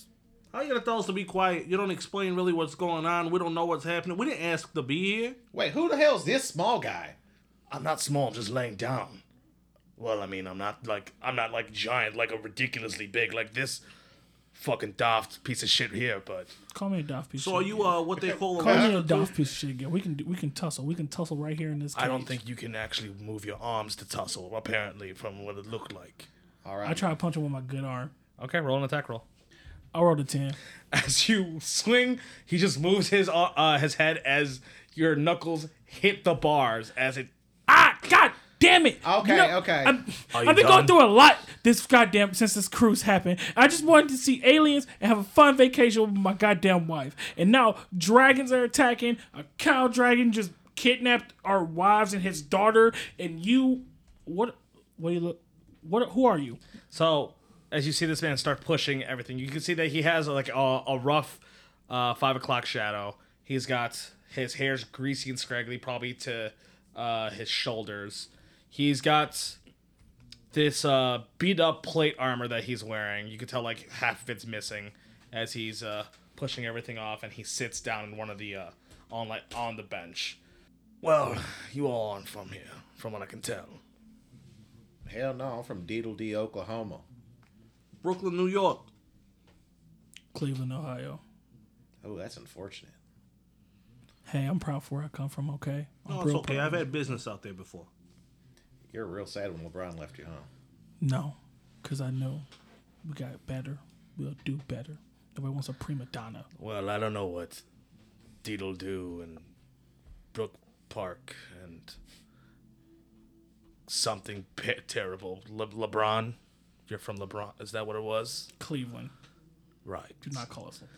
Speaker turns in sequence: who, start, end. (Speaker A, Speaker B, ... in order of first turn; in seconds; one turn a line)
Speaker A: 0.5-5.4
Speaker B: 5.5-7.2
Speaker C: 7.7-9.2
Speaker C: 10.0-13.8
Speaker C: 14.5-16.6
Speaker D: 16.7-18.0
Speaker A: 17.4-19.3
Speaker B: 18.3-19.0
Speaker D: 18.6-22.4
Speaker C: 21.9-26.3
Speaker B: 26.6-27.1
Speaker D: 26.9-28.1
Speaker C: 28.4-29.3
Speaker D: 29.9-30.6
Speaker C: 30.9-37.3
Speaker D: 37.7-56.6
Speaker B: 39.0-40.0
Speaker C: 40.3-41.0
Speaker C: 56.9-69.6
Speaker C: 70.5-80.4
Speaker C: 81.0-83.8
Speaker B: 85.0-87.0
Speaker A: 88.0-88.9
Speaker D: 90.3-91.2
Speaker B: 92.0-93.0
Speaker D: 94.2-96.9
Speaker A: 96.1-97.9
Speaker B: 98.9-100.5
Speaker D: 101.0-102.5
Speaker D: 103.0-106.5
Speaker C: 106.6-107.6
Speaker C: 108.4-109.5
Speaker C: 110.3-112.0
Speaker C: 113.9-118.5
Speaker D: 118.6-119.1
Speaker C: 119.8-120.4
Speaker D: 120.2-120.9